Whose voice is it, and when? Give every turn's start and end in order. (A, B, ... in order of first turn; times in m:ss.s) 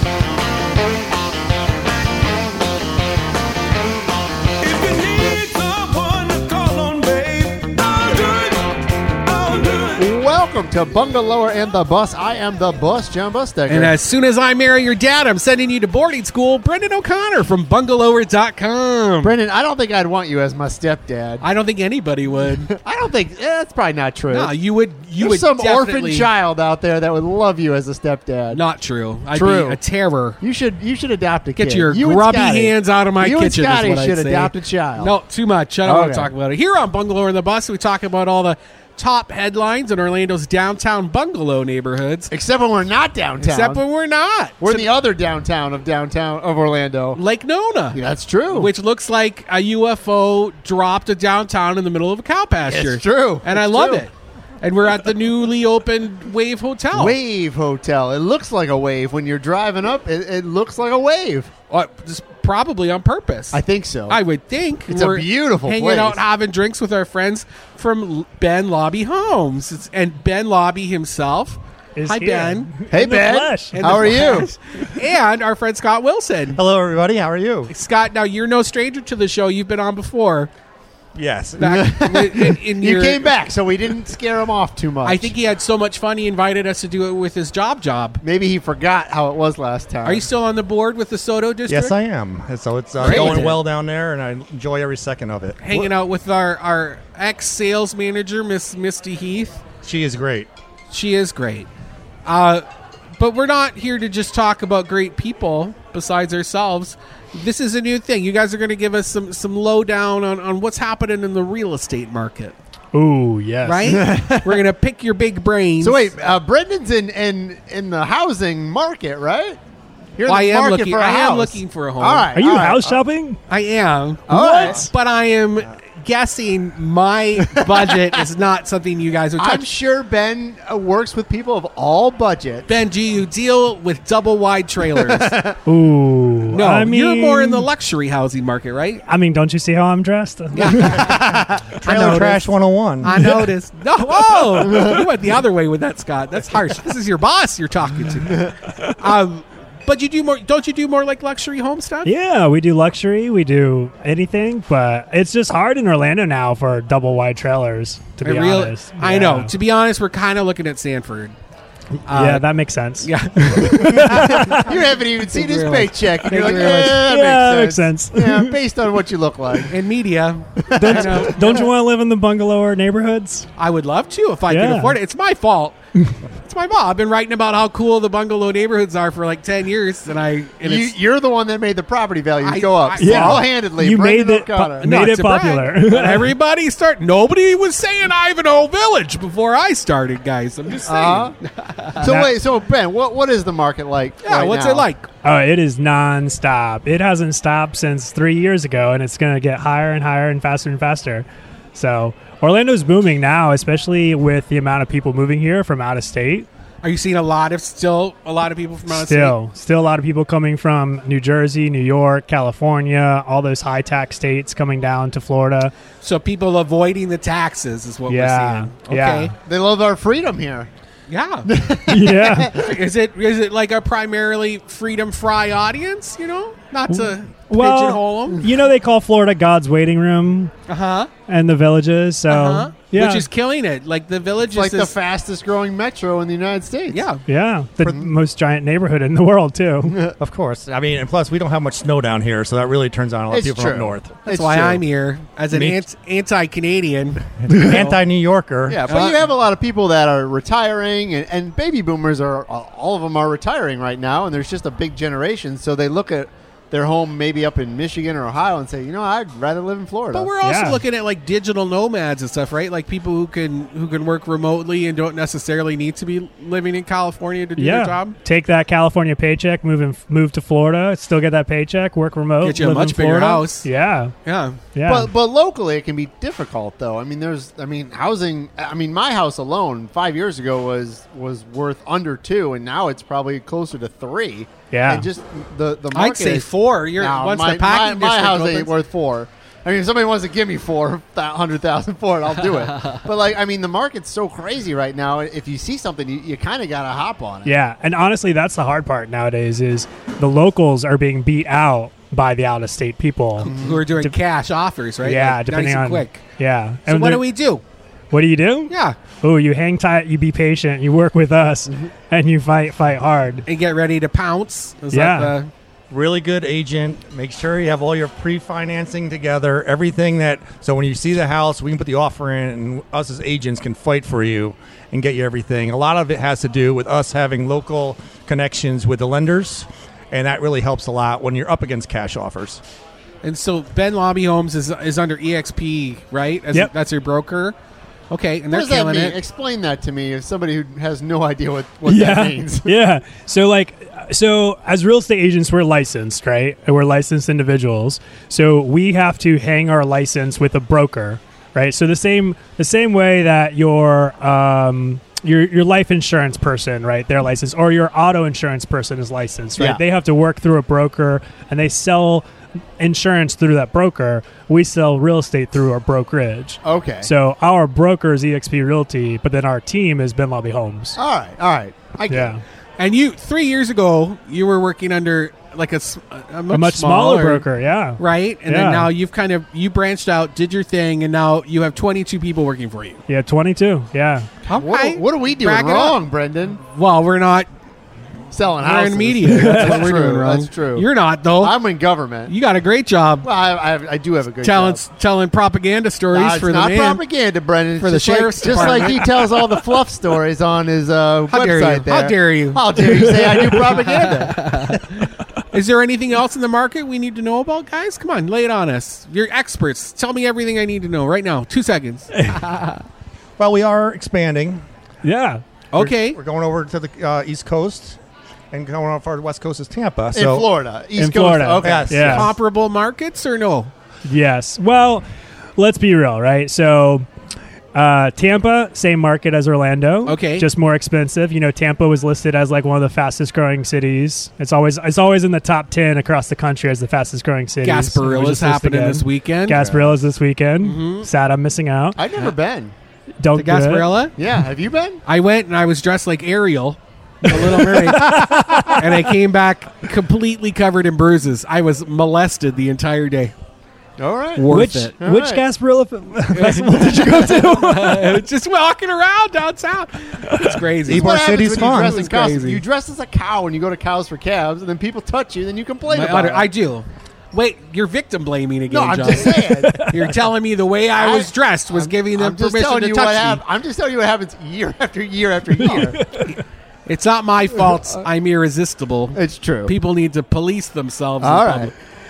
0:04.6-0:10.1 A
0:10.0-0:13.9 B
0:13.7-0:19.4 C
0:19.2-0:21.4 B
0:21.4-0:22.7 C
0:22.7-0:24.5 B
0:24.3-0:26.3 C
0:25.2-0:28.6 B
0:28.5-0:30.4 C
0:29.3-0:29.8 B
0:30.4-0:35.1 B
0:31.6-0:42.3 C
0:35.8-0:36.3 B
0:42.3-0:43.8 B
0:43.4-0:44.9 C
0:44.6-0:47.2 B
0:47.2-0:57.2 C
0:47.9-0:48.7 B
0:52.7-0:54.0 B
0:56.9-1:01.5 B
1:01.7-1:12.7 C
1:03.5-1:04.2 B
1:04.9-1:06.2 B
1:12.0-1:14.2 D
1:12.9-1:14.5 B
1:13.7-1:16.6 C
1:16.5-1:17.7 E
1:17.7-1:20.5 C
1:21.2-1:21.9 E
1:21.6-1:23.2 C
1:21.6-1:25.3 B
1:25.0-1:28.2 C
1:28.2-1:30.3 B
1:30.0-1:32.0 C
1:31.7-1:35.9 E
1:33.0-1:33.6 B
1:33.0-1:33.6 C
1:35.6-1:39.6 C
1:39.8-1:40.5 E
1:40.9-1:41.7 C
1:42.3-1:42.6 C
1:43.2-1:52.6 C
1:52.9-1:54.0 D
1:53.6-1:56.1 C
1:53.8-1:54.6 B
1:55.8-1:59.6 B
2:00.2-2:03.0 B
2:00.3-2:02.3 C
2:02.4-2:03.4 D
2:03.5-2:09.7 C
2:04.3-2:04.8 B
2:04.3-2:04.9 D
2:07.5-2:08.2 B
2:09.4-2:12.7 B
2:12.7-2:15.3 C
2:15.0-2:15.6 B
2:15.7-2:17.7 D
2:16.5-2:19.0 C
2:19.1-2:21.2 D
2:20.5-2:21.2 C
2:21.0-2:21.8 B
2:21.8-2:23.3 E
2:21.8-2:22.3 C
2:21.8-2:22.5 D
2:23.0-2:32.1 C
2:23.2-2:23.4 D
2:32.0-2:39.5 D
2:38.2-2:41.3 C
2:42.1-2:42.4 C
2:42.1-2:44.6 D
2:43.0-2:47.1 C
2:43.7-2:49.8 B
2:46.3-2:48.5 D
2:49.7-2:51.7 C
2:50.6-2:51.6 B
2:50.8-2:53.5 D
2:53.6-2:55.8 C
2:54.5-2:55.0 D
2:56.4-3:01.0 C
3:00.6-3:04.9 B
3:02.4-3:03.5 C
3:03.0-3:06.3 D
3:04.8-3:12.0 C
3:10.9-3:11.4 B
3:12.0-3:14.9 B
3:12.0-3:12.3 D
3:14.2-3:15.1 C
3:15.2-3:26.5 D
3:26.8-3:29.4 C
3:28.9-3:35.7 D
3:36.0-3:39.3 C
3:38.1-3:39.3 D
3:39.5-3:40.7 B
3:41.1-3:41.5 C
3:41.4-3:42.8 B
3:41.9-3:42.5 D
3:42.5-3:48.4 C
3:46.9-3:50.5 D
3:50.7-3:51.1 C
3:51.3-3:53.3 D
3:52.3-3:54.9 C
3:54.5-3:57.1 B
3:56.9-3:57.2 C
3:57.3-4:00.0 D
3:57.8-3:58.1 B
3:59.9-4:00.2 B
4:00.2-4:04.2 E
4:03.3-4:04.8 B
4:04.3-4:07.9 C
4:05.5-4:05.8 E
4:07.4-4:08.8 E
4:08.7-4:20.3 B
4:08.9-4:09.2 C
4:20.1-4:28.2 C
4:20.4-4:20.8 D
4:27.6-4:34.1 D
4:32.4-4:33.7 C
4:34.2-4:34.6 C
4:34.7-4:35.1 D
4:34.9-4:57.5 B
4:44.7-4:45.1 D
4:45.9-4:48.7 C
4:57.5-5:04.1 D
5:03.4-5:06.3 C
5:03.4-5:03.8 B
5:05.0-5:07.2 D
5:06.9-5:07.6 C
5:08.1-5:13.4 D
5:08.7-5:09.0 C
5:13.5-5:15.5 C
5:14.9-5:15.4 D
5:15.9-5:32.6 E
5:33.2-5:37.6 C
5:38.1-5:39.2 C
5:38.5-5:42.7 B
5:41.9-6:02.2 D
6:02.8-6:11.0 D
6:06.6-6:07.1 B
6:11.0-6:12.3 B
6:12.1-6:12.4 D
6:12.8-6:17.5 C
6:16.5-6:18.9 D
6:18.0-6:23.0 C
6:23.1-6:24.3 D
6:24.5-6:26.6 B
6:24.5-6:26.0 C
6:26.7-6:27.5 C
6:28.3-6:30.9 B
6:28.6-6:31.6 C
6:29.3-6:30.0 D
6:31.4-6:32.3 B
6:32.3-6:33.3 C
6:33.2-6:34.8 B
6:34.4-6:37.0 C
6:36.1-6:44.8 B
6:37.8-6:39.4 C
6:41.3-6:45.0 C
6:45.5-6:52.8 C
6:53.4-6:54.6 E
6:55.0-6:55.4 D
6:55.7-6:56.2 C
6:55.8-6:58.0 E
6:58.5-7:00.5 E
7:00.1-7:02.2 B
7:01.0-7:02.3 D
7:01.6-7:02.3 E
7:02.0-7:03.7 C
7:04.0-7:05.0 D
7:05.6-7:07.1 D
7:07.7-7:22.0 D
7:10.1-7:10.5 C
7:17.6-7:19.6 C
7:19.5-7:20.0 B
7:20.6-7:21.1 C
7:22.0-7:22.7 B
7:23.2-7:24.0 D
7:23.4-7:24.1 C
7:24.2-7:25.0 B
7:25.1-7:33.3 C
7:27.2-7:29.1 D
7:34.0-7:34.5 B
7:34.4-7:34.9 C
7:34.5-7:38.2 D
7:35.0-7:35.4 B
7:36.3-7:42.6 C
7:37.0-7:37.4 B
7:40.8-7:42.0 E
7:40.9-7:46.5 B
7:45.9-7:53.4 C
7:48.7-7:49.8 B
7:49.3-7:50.1 D
7:51.0-7:56.0 B
7:55.7-7:56.2 D
7:56.0-8:01.7 C
7:59.1-7:59.7 B
8:01.2-8:01.7 B